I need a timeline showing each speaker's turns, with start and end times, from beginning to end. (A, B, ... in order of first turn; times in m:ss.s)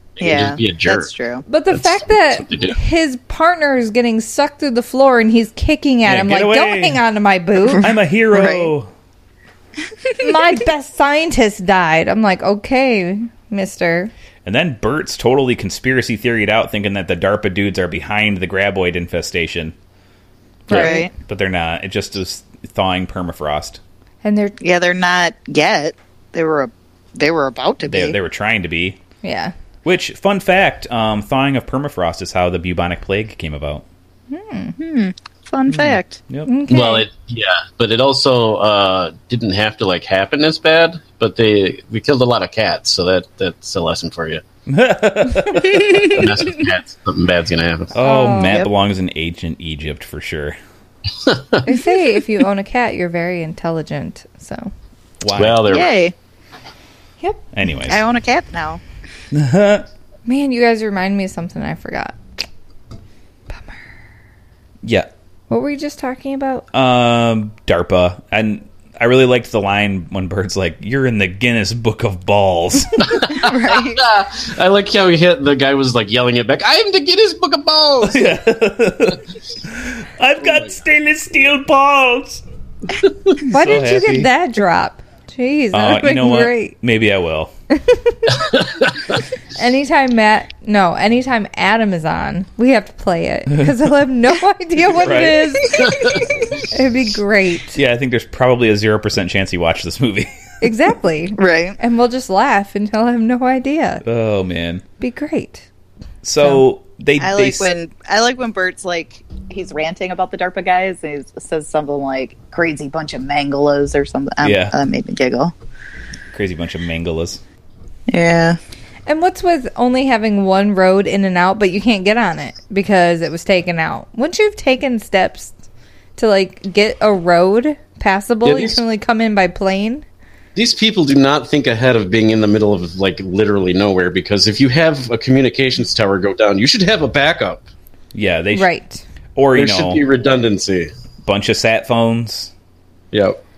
0:00.2-0:01.1 A
0:00.2-0:01.4 B
0:01.5-0:07.8 C
0:01.7-0:02.8 A
0:06.1-0:07.0 D
0:07.8-0:08.9 D
0:08.3-0:08.7 B
0:10.2-0:14.1 C
0:14.4-0:19.8 D
0:20.7-0:21.1 C
0:20.7-0:23.8 D
0:20.7-0:21.1 B
0:24.2-0:24.6 C
0:24.6-0:28.2 B
0:27.9-0:29.0 D
0:29.2-0:29.5 C
0:29.8-0:33.8 D
0:34.3-0:34.8 C
0:34.8-0:36.2 B
0:35.7-0:36.5 D
0:36.5-0:37.1 C
0:36.7-0:44.4 A
0:44.7-0:46.2 D
0:46.0-0:47.9 A
0:48.0-0:50.6 D
0:48.0-0:48.6 C
0:51.3-0:51.7 A
0:51.6-0:54.7 C
0:55.2-0:55.7 D
0:55.4-0:55.9 A
0:55.7-0:56.1 B
0:57.5-0:58.0 D
0:57.9-0:58.8 B
0:59.3-0:59.9 D
1:00.3-1:02.2 C
1:03.5-1:03.8 C
1:04.8-1:05.1 D
1:05.5-1:06.6 C
1:06.7-1:13.2 D
1:13.0-1:18.2 A
1:13.3-1:14.0 B
1:18.0-1:22.4 D
1:23.4-1:24.3 D
1:23.5-1:26.8 C
1:25.7-1:27.5 D
1:27.7-1:28.4 C
1:28.5-1:29.1 A
1:29.6-1:37.8 C
1:35.0-1:35.7 D
1:35.9-1:36.2 A
1:37.8-1:40.3 D
1:40.6-1:44.0 C
1:41.4-1:41.8 B
1:44.0-1:44.8 D
1:45.0-1:45.6 C
1:46.2-1:47.7 D
1:47.2-1:55.5 B
1:54.4-1:54.8 D
1:56.3-1:57.4 D
1:58.1-1:58.6 B
1:59.1-2:05.5 C
2:06.2-2:10.1 C
2:08.4-2:08.8 A
2:10.6-2:17.6 A
2:18.1-2:18.7 D
2:18.5-2:19.0 C
2:19.4-2:20.0 D
2:19.6-2:20.9 A
2:21.2-2:22.5 D
2:23.1-2:23.4 A